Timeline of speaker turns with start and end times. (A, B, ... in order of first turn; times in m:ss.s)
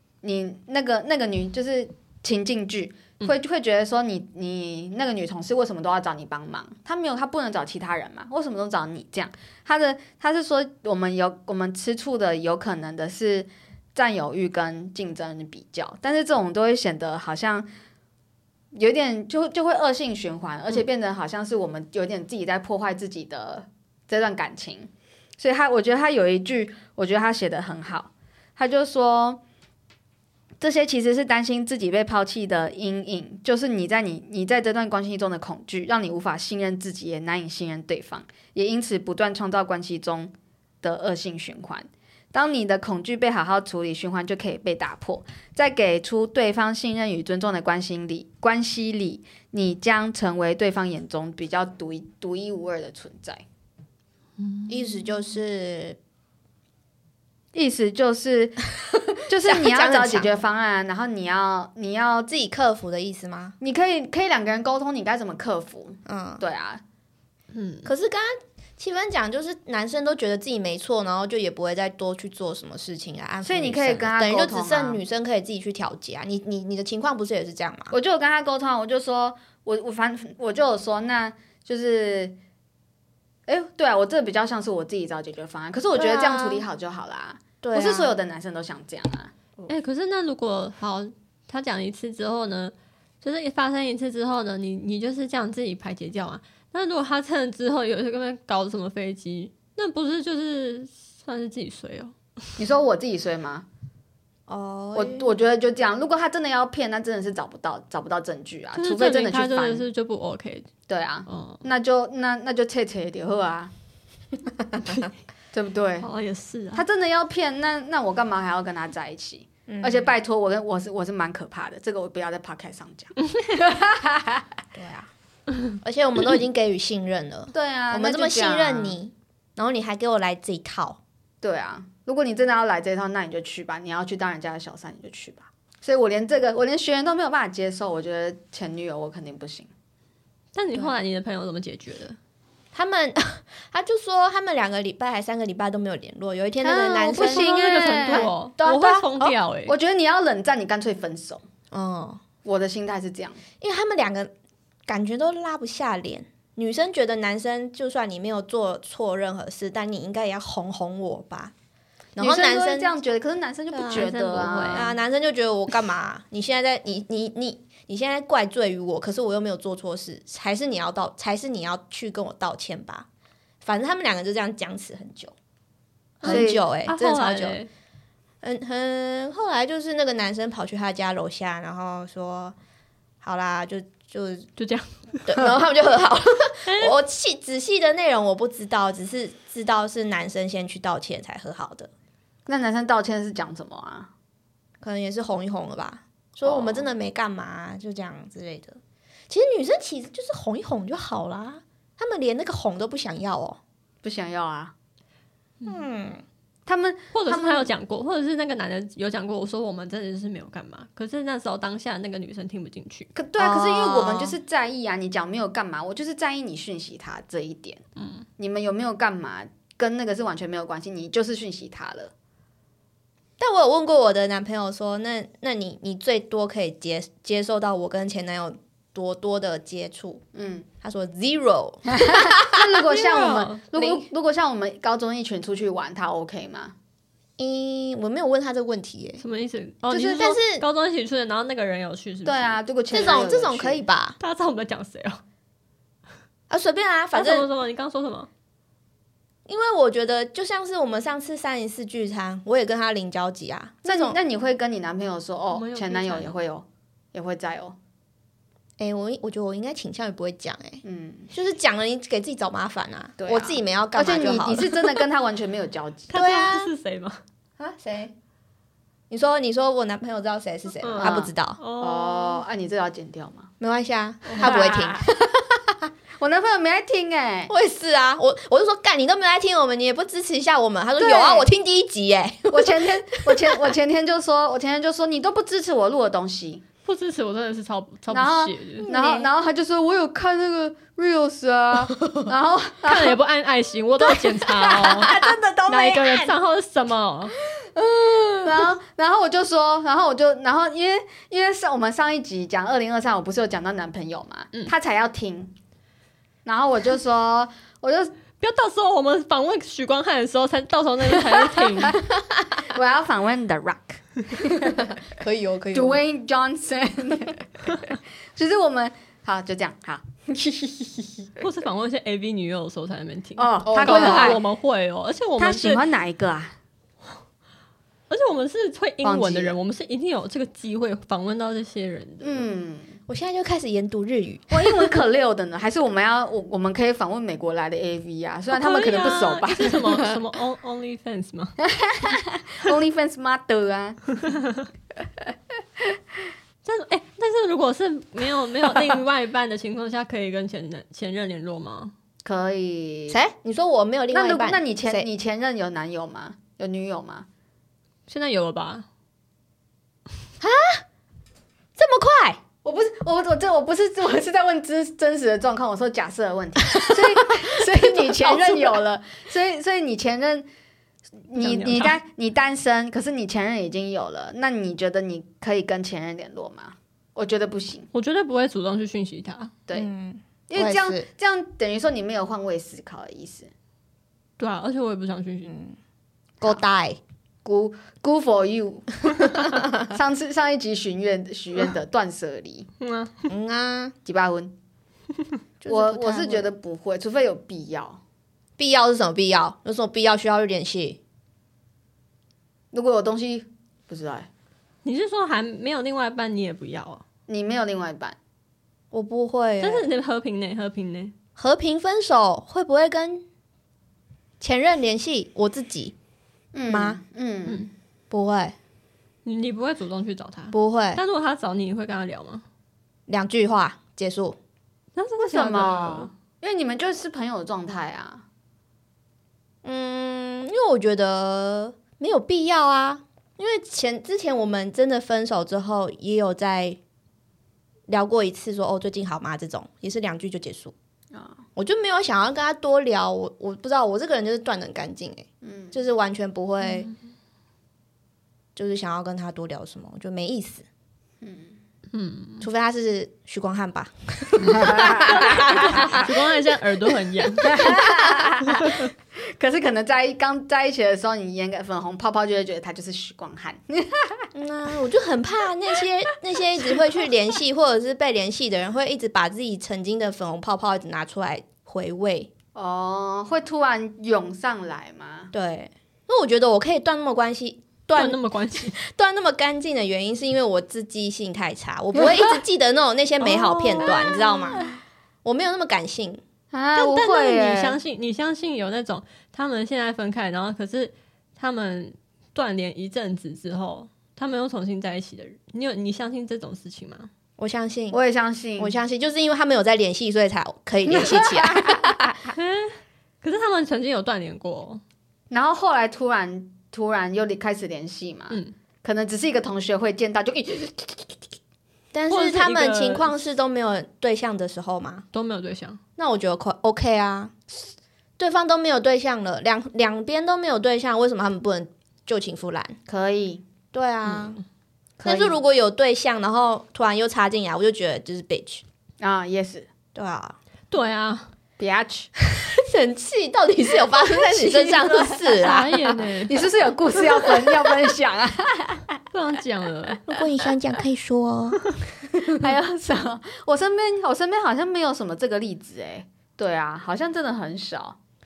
0:00.2-0:17.7 A
0:18.7-0:29.4 A
0:30.6-0:53.4 A
0:54.4-0:55.1 B
0:54.7-0:56.0 C
0:57.5-1:02.4 A
0:59.4-1:00.4 C
1:02.3-1:03.6 C
1:03.6-1:06.8 A
1:06.0-1:06.4 C
1:07.5-1:07.9 B
1:07.8-1:17.9 C
1:13.4-1:15.0 A
1:17.9-1:22.4 A
1:23.5-1:29.3 A
1:25.9-1:26.6 C
1:27.6-1:28.1 C
1:29.7-1:42.6 B
1:42.6-1:43.6 A
1:44.5-1:45.3 C
1:44.9-1:49.9 A
1:48.8-1:50.7 B
1:50.9-1:53.7 A
1:51.3-1:51.6 B
1:55.5-1:56.0 A
1:56.0-1:56.8 B
1:56.7-2:04.4 A
1:59.7-2:00.1 C
2:04.7-2:05.1 C
2:05.8-2:11.0 C
2:07.5-2:09.0 A
2:11.4-2:19.7 A
2:20.5-2:22.2 B
2:22.7-2:29.3 C
2:26.6-2:29.0 A
2:27.1-2:29.8 B
2:29.7-2:31.4 A
2:31.7-2:32.2 C
2:32.4-2:33.4 A
2:33.6-2:34.3 C
2:34.9-2:41.5 C
2:42.2-2:42.9 C
2:42.2-2:44.9 A
2:43.7-2:44.1 C
2:43.9-2:44.9 B
2:44.7-2:53.1 C
2:53.6-2:55.3 C
2:56.2-2:57.6 C
2:56.2-2:57.7 B
2:56.2-2:56.7 A
2:58.4-3:02.5 C
3:03.2-3:04.5 C
3:04.6-3:05.3 B
3:05.2-3:11.9 C
3:06.6-3:07.0 B
3:12.5-3:14.1 A
3:14.8-3:23.6 C
3:16.4-3:16.9 A
3:24.0-3:24.7 A
3:25.6-3:26.2 C
3:26.6-3:27.7 A
3:27.1-3:33.1 B
3:33.1-3:37.8 A
3:33.4-3:34.4 C
3:38.0-3:38.2 B
3:38.4-3:42.1 A
3:43.4-3:50.2 C
3:50.3-3:50.7 A
3:50.8-3:52.6 C
3:51.9-3:56.7 A
3:52.8-3:53.6 B
3:53.7-3:54.1 C
3:57.4-3:59.2 C
3:59.2-4:02.6 B
3:59.9-4:00.3 A
4:00.0-4:00.6 C
4:02.2-4:03.8 A
4:02.9-4:04.2 C
4:04.2-4:05.2 B
4:06.5-4:07.5 C
4:07.1-4:08.3 B
4:09.4-4:14.2 C
4:13.8-4:17.8 A
4:15.5-4:16.4 B
4:18.8-4:25.0 C
4:20.8-4:21.3 A
4:23.2-4:26.1 A
4:26.1-4:27.2 B
4:26.1-4:26.7 C
4:27.6-4:28.1 C
4:29.1-4:31.6 C
4:30.8-4:32.4 B
4:31.0-4:33.5 A
4:33.6-4:35.7 C
4:34.2-4:34.5 B
4:34.4-4:35.1 A
4:36.2-4:37.5 A
4:37.5-4:43.7 C
4:41.0-4:41.5 A
4:42.5-4:46.6 A
4:46.8-4:48.9 B
4:48.1-4:53.2 A
4:48.8-4:49.3 C
4:52.8-4:55.1 B
4:54.0-4:56.3 A
4:55.7-4:57.3 B
4:57.8-5:05.5 A
5:06.4-5:08.1 A
5:08.4-5:12.0 B
5:12.6-5:14.9 A
5:15.1-5:16.0 C
5:15.7-5:21.3 A
5:21.4-5:25.8 B
5:23.4-5:24.4 A
5:23.6-5:24.4 C
5:25.4-5:26.5 A
5:28.1-5:32.4 B
5:29.0-5:29.6 A
5:32.2-5:33.0 A
5:33.1-5:34.9 C
5:34.5-5:40.0 A
5:38.5-5:41.6 B
5:41.6-5:44.2 A
5:44.3-5:44.6 B
5:46.6-5:51.9 B
5:52.2-5:53.2 A
5:53.1-5:55.1 C
5:54.1-5:57.2 A
5:58.1-5:58.9 B
6:00.4-6:00.8 C
6:01.8-6:02.4 C
6:02.6-6:10.5 A
6:06.8-6:07.1 C
6:07.7-6:08.8 C
6:11.3-6:17.9 A
6:11.3-6:12.0 B
6:17.9-6:19.5 B
6:19.7-6:21.0 C
6:20.5-6:23.5 A
6:24.4-6:25.5 B
6:25.4-6:25.8 C
6:26.4-6:27.0 C
6:27.4-6:32.7 A
6:29.2-6:29.8 C
6:32.8-6:33.3 B
6:33.3-6:33.9 C
6:34.0-6:34.5 A
6:35.6-6:36.5 C
6:35.7-6:38.0 A
6:38.6-6:41.0 C
6:42.7-6:44.3 A
6:44.8-6:47.0 B
6:47.3-6:48.2 A
6:48.9-6:49.9 C
6:49.6-6:51.1 B
6:51.4-6:53.2 C
6:54.4-6:56.0 C
6:56.5-6:57.6 A
6:56.7-6:57.0 C
6:58.1-6:58.6 C
6:59.2-7:02.4 B
7:00.5-7:01.0 C
7:03.1-7:04.4 C
7:05.0-7:06.1 B
7:05.2-7:08.2 A
7:09.6-7:16.8 C
7:17.9-7:20.7 C
7:21.1-7:21.4 A
7:21.6-7:26.9 C
7:25.4-7:25.8 A
7:26.6-7:26.9 B
7:28.5-7:30.6 C
7:31.2-7:31.6 A
7:31.9-7:32.4 B
7:32.4-7:36.0 C
7:34.4-7:36.0 A
7:35.0-7:37.8 B
7:37.4-7:44.2 A
7:38.6-7:38.9 B
7:44.3-7:52.3 C
7:52.5-7:55.3 A
7:55.3-7:58.2 C
7:57.9-7:58.8 B
7:58.7-8:04.7 C
8:03.2-8:04.4 B
8:05.2-8:06.2 C
8:06.5-8:07.8 A
8:06.7-8:17.1 B
8:17.4-8:18.0 C
8:17.9-8:18.8 A
8:18.6-8:22.0 C
8:20.9-8:22.3 A
8:22.3-8:24.8 B
8:25.3-8:31.1 A
8:31.9-8:35.0 C
8:32.1-8:33.2 B
8:35.1-8:35.8 B
8:36.0-8:37.4 C
8:38.2-8:42.8 C
8:42.9-8:43.4 A
8:43.7-8:44.4 C
8:44.1-8:44.4 B
8:45.0-8:45.4 A
8:45.0-8:48.6 C
8:49.0-8:49.7 A
8:49.9-8:50.4 C
8:50.7-8:51.3 B
8:51.6-8:52.2 A
8:52.4-8:55.7 C
8:53.9-8:55.5 A
8:55.4-8:56.4 B
8:56.3-8:58.8 A
8:57.1-8:57.7 C
8:59.1-9:00.1 B
9:00.1-9:01.8 C
9:02.1-9:08.0 A